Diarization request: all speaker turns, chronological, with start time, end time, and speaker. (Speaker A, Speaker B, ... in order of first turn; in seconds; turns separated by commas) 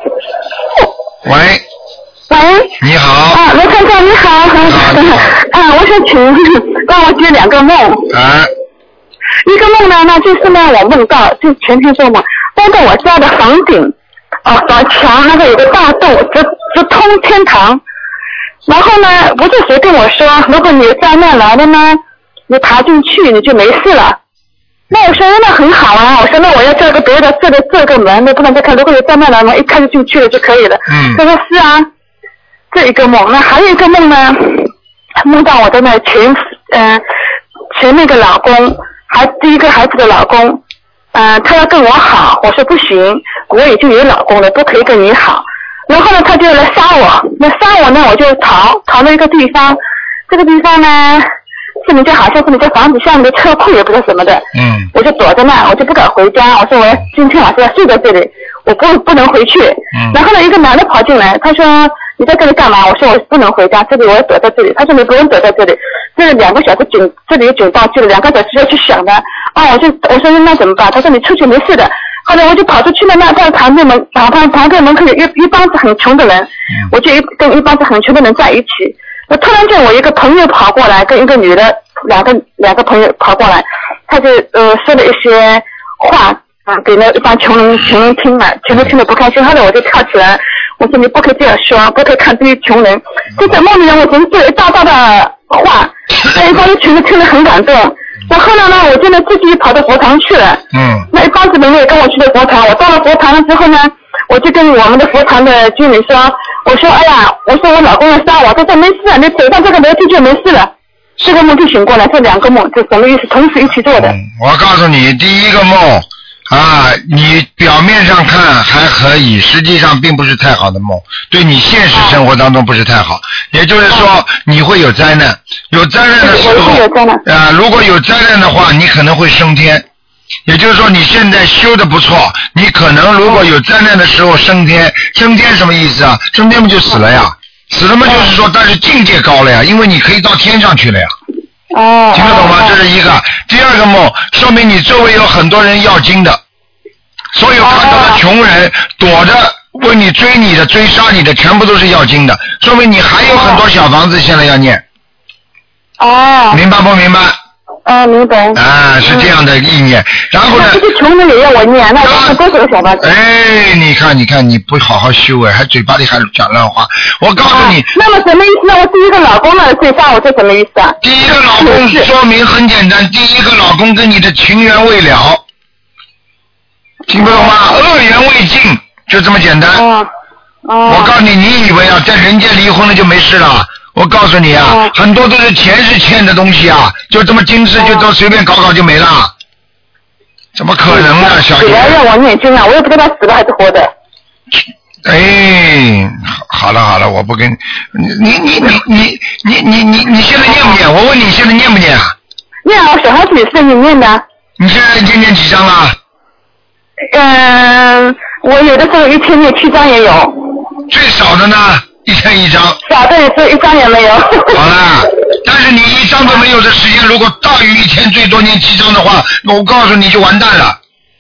Speaker A: 1.2-1.6, Speaker B: 2.3-2.8, Speaker A: 2.8-3.4, Speaker B: 3.3-8.1, Speaker A: 4.7-5.3, Speaker A: 8.1-8.5, Speaker B: 9.4-13.9, Speaker B: 14.4-17.8, Speaker B: 18.7-24.2, Speaker B: 24.9-31.9, Speaker A: 30.9-31.2, Speaker B: 32.7-37.0, Speaker B: 37.7-40.6, Speaker B: 41.1-51.3, Speaker B: 51.8-114.2, Speaker A: 54.5-54.9, Speaker A: 59.9-60.2, Speaker A: 100.7-101.1, Speaker A: 113.9-129.9, Speaker B: 121.9-122.2, Speaker B: 126.2-127.2, Speaker A: 130.5-141.2, Speaker B: 138.1-138.4, Speaker B: 141.7-142.8, Speaker A: 142.1-146.4, Speaker A: 147.3-154.8, Speaker B: 147.6-148.2, Speaker B: 153.3-153.6, Speaker B: 156.0-156.6, Speaker A: 156.5-157.4, Speaker B: 157.9-159.3, Speaker A: 158.6-160.8, Speaker B: 160.5-163.1, Speaker A: 162.0-162.4, Speaker A: 163.0-167.9, Speaker B: 167.5-171.0, Speaker A: 171.0-175.4, Speaker B: 171.5-172.1, Speaker A: 177.1-179.9, Speaker B: 177.2-177.8, Speaker B: 179.8-180.1, Speaker B: 180.7-181.1, Speaker A: 180.9-189.3, Speaker B: 184.7-184.9, Speaker B: 187.8-188.1, Speaker A: 190.6-192.0, Speaker B: 190.9-193.9, Speaker A: 194.5-202.2, Speaker B: 202.7-204.2, Speaker A: 204.6-206.0, Speaker B: 207.1-210.5, Speaker A: 210.9-212.8, Speaker B: 212.8-214.6, Speaker A: 214.5-220.8